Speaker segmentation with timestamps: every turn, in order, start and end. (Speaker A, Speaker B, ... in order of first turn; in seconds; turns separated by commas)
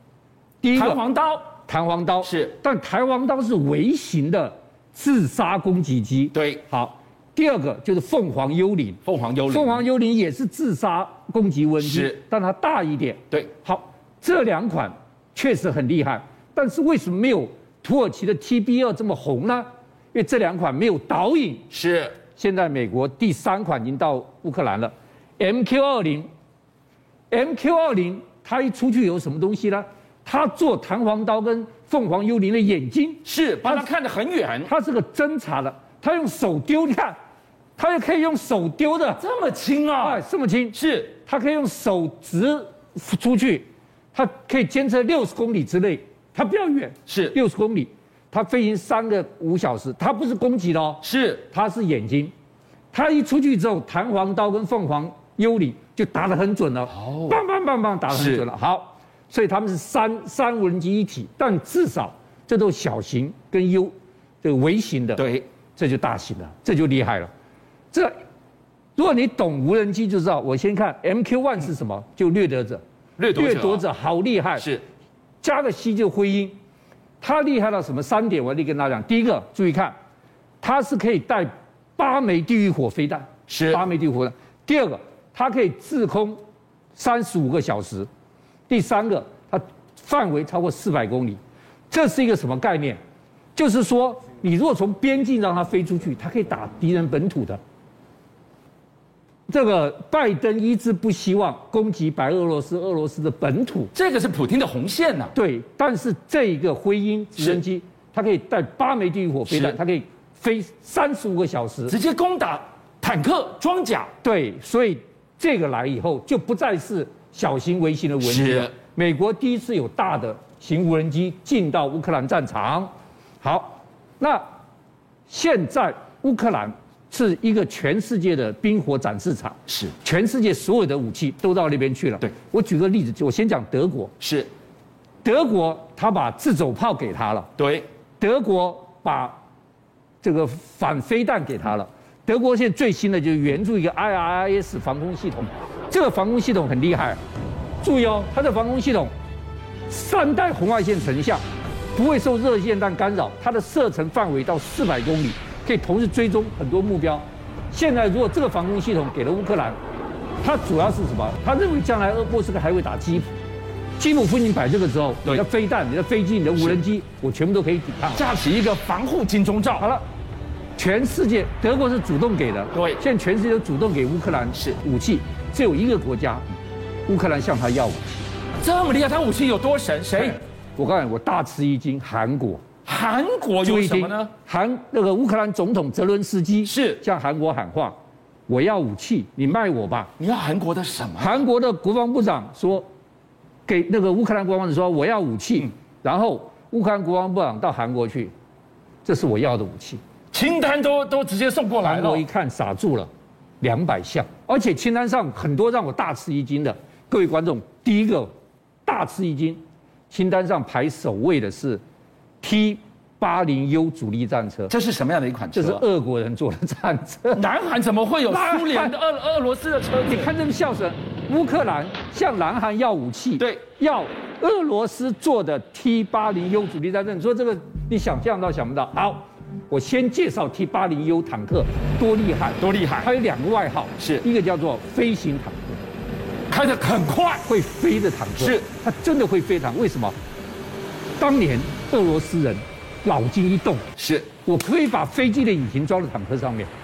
Speaker A: 0.6-1.0, Speaker B: 0.7-1.5, Speaker A: 1.7-21.7, Speaker B: 2.2-2.5, Speaker B: 6.3-6.6, Speaker B: 9.0-9.8, Speaker B: 11.8-12.2, Speaker B: 21.7-22.2, Speaker A: 22.4-26.3, Speaker A: 27.3-33.9, Speaker B: 33.2-34.7, Speaker A: 34.6-37.1, Speaker A: 37.8-39.2, Speaker B: 39.2-41.1, Speaker A: 40.0-52.3, Speaker B: 47.1-47.4, Speaker B: 51.0-51.4, Speaker A: 52.9-67.3, Speaker B: 57.0-57.3, Speaker B: 58.1-58.5, Speaker B: 65.2-65.4, Speaker A: 69.0-72.8, Speaker B: 73.2-73.8, Speaker A: 73.3-74.7, Speaker A: 75.4-76.5, Speaker A: 77.2-79.9, Speaker A: 80.6-86.4, Speaker B: 83.5-83.8, Speaker A: 86.9-88.1, Speaker A: 88.7-91.4, Speaker A: 91.9-93.0, Speaker A: 93.5-97.6, Speaker A: 99.5-103.9, Speaker B: 103.9-105.3, Speaker A: 105.3-112.0, Speaker B: 109.5-109.8, Speaker B: 111.9-114.1, Speaker A: 114.2-124.4, Speaker B: 118.2-118.7, Speaker A: 125.3-134.1, Speaker B: 129.7-129.9, Speaker B: 134.2-134.5, Speaker A: 135.2-137.5, Speaker B: 137.6-137.8, Speaker A: 138.2-139.4, Speaker A: 140.2-147.2, Speaker A: 147.8-149.1, Speaker A: 149.9-151.4, Speaker A: 151.9-159.8, Speaker A: 160.4-163.3, Speaker A: 164.0-168.2, Speaker B: 168.1-169.8, Speaker A: 170.8-176.4, Speaker B: 172.7-173.0, Speaker A: 177.1-178.2, Speaker B: 178.6-180.4, Speaker A: 180.2-182.6, Speaker B: 182.8-184.3, Speaker A: 183.6-187.9, Speaker B: 186.6-187.0, Speaker A: 188.5-190.1, Speaker B: 190.2-191.4, Speaker A: 191.2-192.9, Speaker A: 193.7-198.3, Speaker A: 199.0-200.0, Speaker B: 200.3-202.2, Speaker A: 201.8-203.1, Speaker A: 203.6-208.3, Speaker A: 208.8-211.8, Speaker A: 212.4-214.7, Speaker B: 214.7-215.8, Speaker A: 215.5-217.4, Speaker B: 217.3-220.3, Speaker A: 218.3-218.9, Speaker A: 220.1-235.7, Speaker B: 232.6-233.1, Speaker B: 234.0-234.2, Speaker B: 236.5-237.5, Speaker A: 237.4-240.2, Speaker B: 238.4-238.7, Speaker A: 241.2-243.8, Speaker B: 244.0-244.3, Speaker A: 244.4-246.7